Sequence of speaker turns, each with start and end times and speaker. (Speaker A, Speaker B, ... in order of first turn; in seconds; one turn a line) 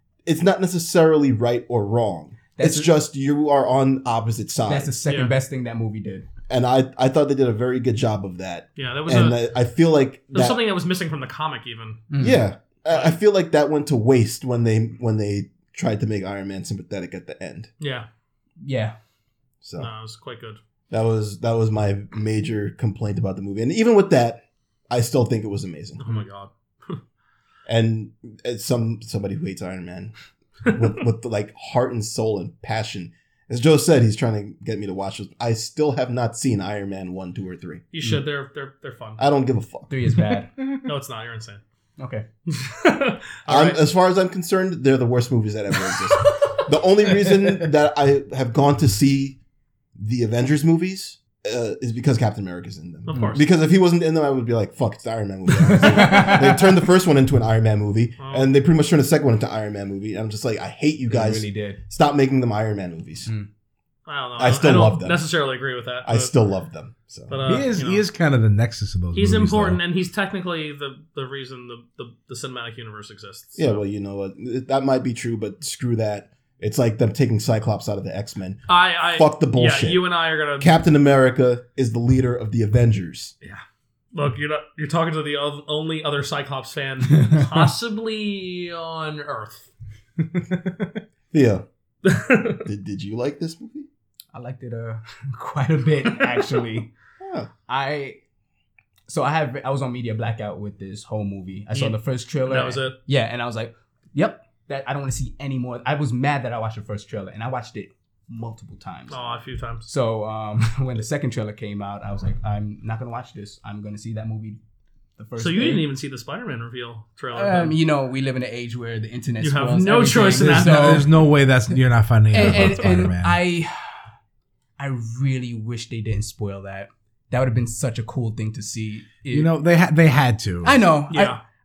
Speaker A: 0.2-4.9
Speaker B: 2.5-2.9
Speaker B: 4.7-6.2
Speaker C: 5.1-5.3
Speaker A: 6.5-10.6
Speaker C: 8.8-9.4
Speaker C: 10.3-12.1
Speaker B: 12.1-12.4
Speaker A: 12.2-17.7
Speaker C: 12.9-13.2
Speaker C: 17.8-18.1
Speaker B: 18.6-18.9
Speaker A: 19.6-19.9
Speaker C: 19.8-20.6
Speaker A: 20.9-26.2
Speaker C: 26.0-27.0
Speaker A: 27.6-30.1
Speaker A: 30.6-37.8
Speaker C: 37.9-39.2
Speaker A: 39.2-39.9
Speaker B: 39.9-40.5
Speaker C: 40.7-41.6
Speaker B: 42.0-42.2
Speaker C: 42.5-43.8
Speaker A: 43.5-49.4
Speaker C: 45.9-46.5
Speaker A: 50.0-63.3
Speaker C: 53.0-53.5
Speaker B: 55.9-56.6
Speaker C: 58.2-58.5
Speaker B: 61.1-61.8
Speaker C: 64.1-66.3
Speaker A: 64.4-65.2
Speaker A: 66.0-67.4
Speaker C: 67.3-68.0
Speaker D: 67.4-69.8
Speaker C: 69.1-73.8
Speaker A: 73.5-80.0
Speaker C: 78.7-80.7
Speaker A: 80.6-83.3
Speaker C: 83.4-89.7
Speaker B: 87.1-87.6
Speaker D: 90.5-90.8
Speaker A: 91.3-91.6
Speaker C: 92.0-92.6
Speaker A: 92.6-93.9
Speaker B: 94.3-96.9
Speaker A: 97.2-97.5
Speaker B: 97.7-98.2
Speaker B: 99.1-109.2
Speaker C: 101.7-102.9
Speaker C: 109.1-109.9
Speaker B: 109.8-114.6
Speaker B: 115.2-115.8
Speaker C: 115.4-117.8
Speaker B: 117.3-121.1
Speaker C: 119.4-121.1
Speaker D: 120.4-123.4
Speaker B: 122.3-123.7
Speaker C: 122.3-122.7
Speaker B: 124.8-129.5
Speaker D: 129.3-130.8
Speaker B: 130.6-131.4
Speaker C: 131.1-131.4